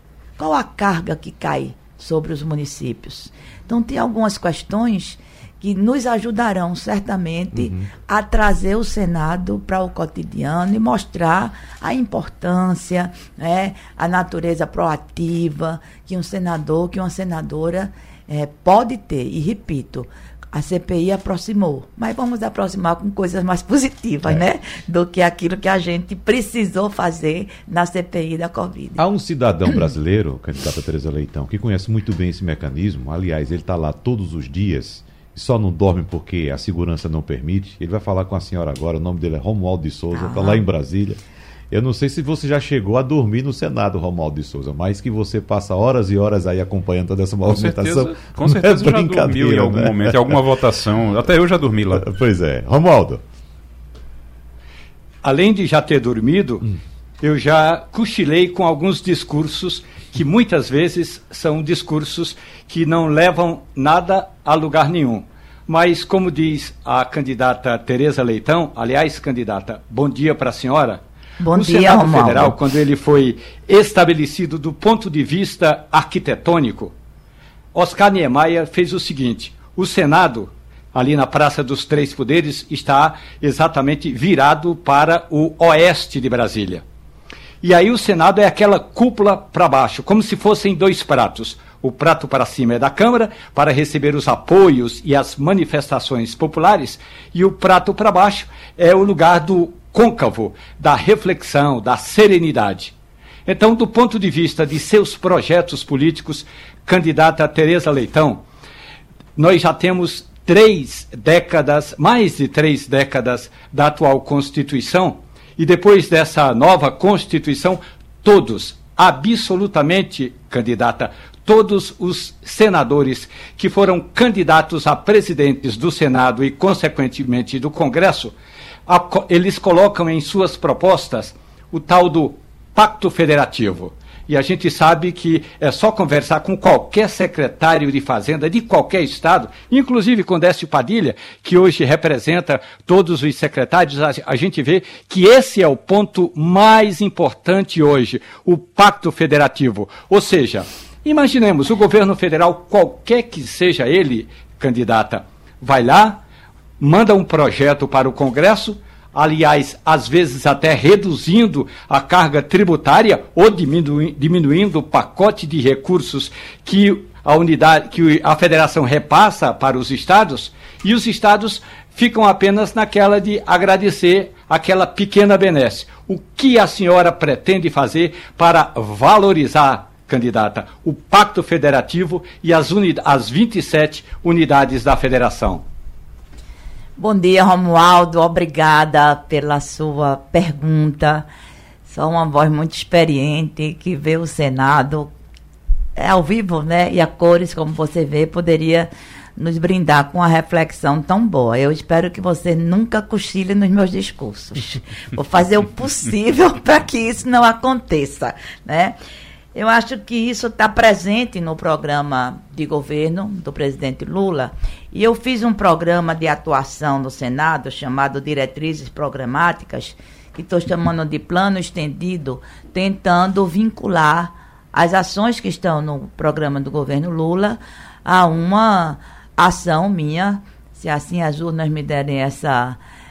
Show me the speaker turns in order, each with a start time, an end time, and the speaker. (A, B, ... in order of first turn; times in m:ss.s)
0:00.4-0:29.0 A
0:07.5-0:07.9 B
0:29.0-0:50.4 B
0:40.1-0:40.6 A
0:47.5-0:52.1 C
0:51.9-0:53.2 B
0:55.2-0:56.7 D
0:57.2-1:11.0 D
1:11.4-1:12.6 A
1:11.5-1:16.9 D
1:17.7-1:26.8 D
1:27.6-1:42.9 D
1:43.5-1:48.4 D
1:49.4-2:08.3 D
2:08.9-2:36.2 D
2:36.8-3:05.6 D
3:07.0-3:11.3 A
3:11.9-3:15.1 A
3:16.0-3:29.0 A
3:29.5-3:52.8 A